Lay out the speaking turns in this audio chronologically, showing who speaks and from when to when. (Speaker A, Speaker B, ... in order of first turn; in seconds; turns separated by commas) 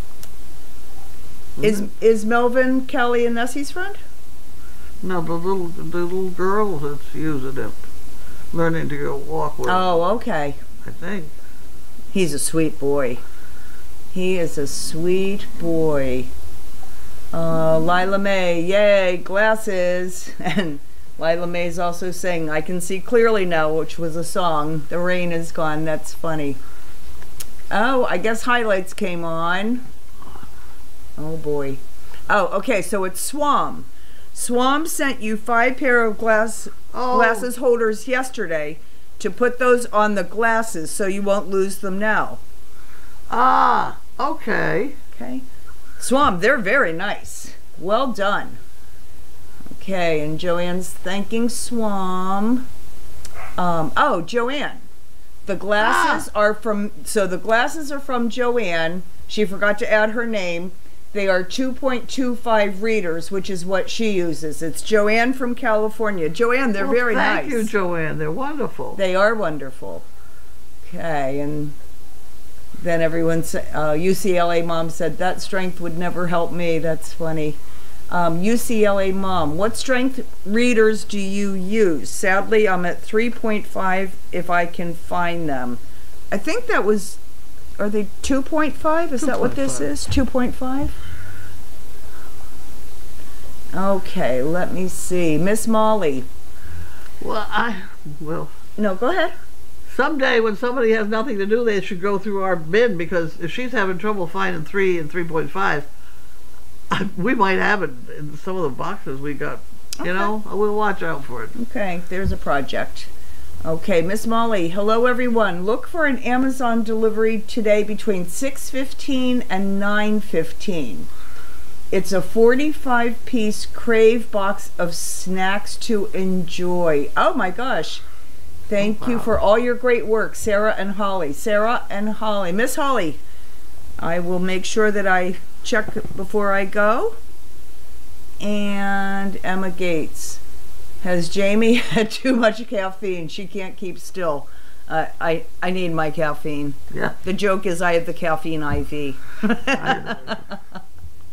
Speaker A: 1.6-1.8, Speaker B: 1.6-4.0, Speaker A: 5.0-7.8, Speaker A: 8.5-10.0, Speaker B: 9.7-10.6, Speaker A: 10.8-11.3, Speaker B: 12.1-13.2, Speaker B: 14.1-16.3, Speaker B: 17.3-26.6, Speaker B: 27.7-29.8, Speaker B: 31.2-42.4, Speaker A: 36.9-37.5, Speaker A: 43.3-45.0, Speaker B: 45.1-45.5, Speaker B: 46.0-48.6, Speaker B: 49.7-52.7, Speaker B: 53.6-54.9, Speaker B: 55.5-67.7, Speaker A: 55.8-56.3, Speaker A: 66.8-69.0, Speaker B: 69.0-70.0, Speaker B: 70.8-71.8, Speaker B: 72.8-77.6, Speaker B: 78.1-85.8, Speaker B: 86.3-87.2, Speaker B: 87.8-91.0, Speaker A: 89.2-89.9, Speaker B: 93.7-96.3, Speaker A: 97.2-98.5, Speaker B: 98.8-99.3, Speaker A: 99.9-105.9, Speaker A: 106.9-111.5, Speaker B: 110.0-110.3, Speaker B: 111.5-113.1, Speaker B: 113.6-121.1, Speaker B: 121.9-128.0, Speaker B: 128.7-133.2, Speaker A: 128.8-129.4, Speaker B: 134.0-137.2, Speaker B: 138.4-140.4, Speaker B: 141.0-150.6, Speaker A: 149.7-150.4